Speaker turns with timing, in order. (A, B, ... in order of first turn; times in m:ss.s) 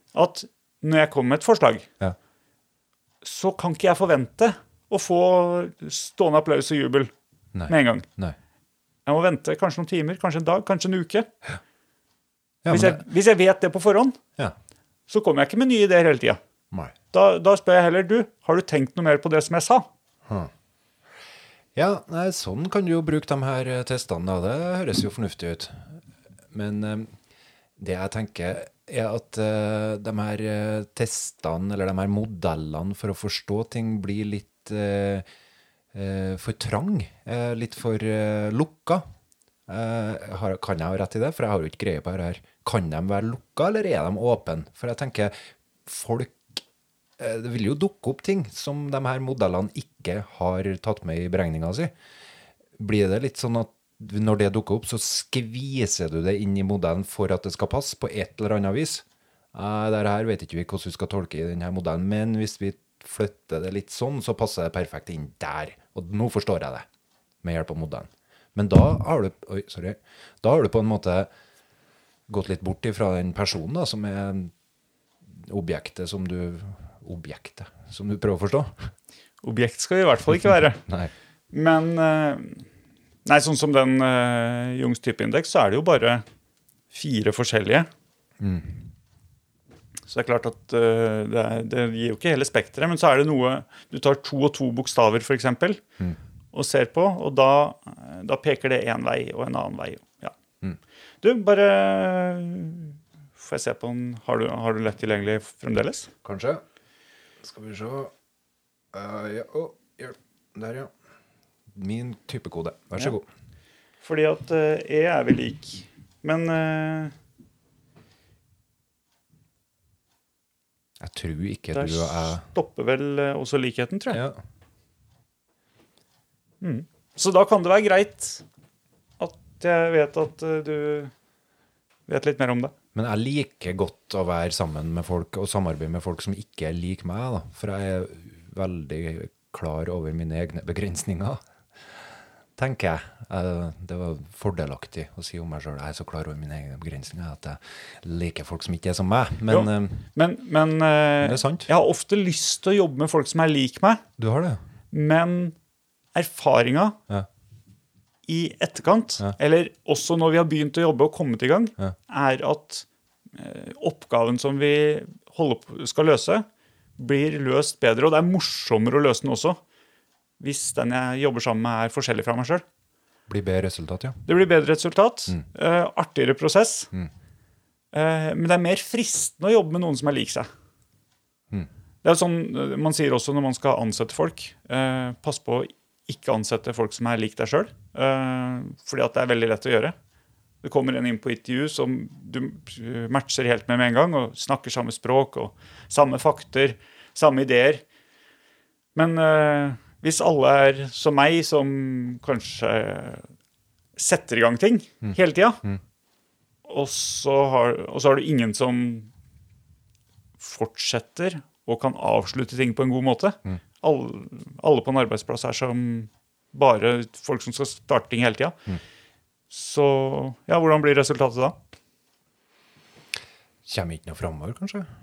0:00.1-0:01.9 A
0:03.2-0:07.1 A
0:07.5-0:08.4 B
0:07.7-0:08.0 A
0:09.0-0:11.3 A
0:12.6-0:13.0 B
0:12.7-0:14.2 A
0:15.1-0:16.4 A
0:17.1-0:19.9 A
0:20.2-0:20.5 B
0:21.7-0:26.0 B
0:26.5-0:27.1 B
0:27.8-0:35.2 B
0:35.9-0:39.0 B
0:39.7-0:46.6 B
0:47.2-0:51.9 B
0:52.8-1:06.8 B
1:07.4-1:11.3 B
1:12.3-1:14.5 B
1:15.3-1:18.9 B
1:19.4-1:20.8 A
1:20.8-1:21.1 B
1:21.5-1:22.6 A
1:23.2-1:26.2 A
1:26.9-1:27.9 A
1:28.4-1:28.9 B
1:30.1-1:35.8 A
1:36.5-1:40.3 A
1:41.2-1:46.1 A
1:46.2-1:46.6 B
1:47.4-1:48.1 B
1:48.9-1:50.9 B
1:51.7-1:53.2 B
1:54.0-1:57.1 A
2:01.0-2:02.4 B
2:01.7-2:04.2 A
2:04.1-2:04.4 B
2:06.6-2:08.4 A
2:09.2-2:11.1 A
2:12.1-2:12.7 A
2:12.9-2:22.0 B
2:22.6-2:30.0 B
2:29.5-2:34.0 A
2:31.2-2:31.7 B
2:34.2-2:34.6 B
2:34.9-2:35.6 A
2:36.1-2:37.0 A
2:38.2-2:46.4 A
2:47.0-2:49.6 A
2:50.4-2:52.6 A
2:53.3-2:54.2 B
2:54.2-2:56.9 A
2:57.9-3:00.5 A
3:02.0-3:09.9 A
3:10.6-3:17.8 A
3:18.9-3:23.3 A
3:24.0-3:25.6 A
3:25.0-3:25.8 B
3:26.6-3:29.1 A
3:30.4-3:38.6 A
3:39.5-3:41.6 A
3:43.6-3:44.9 B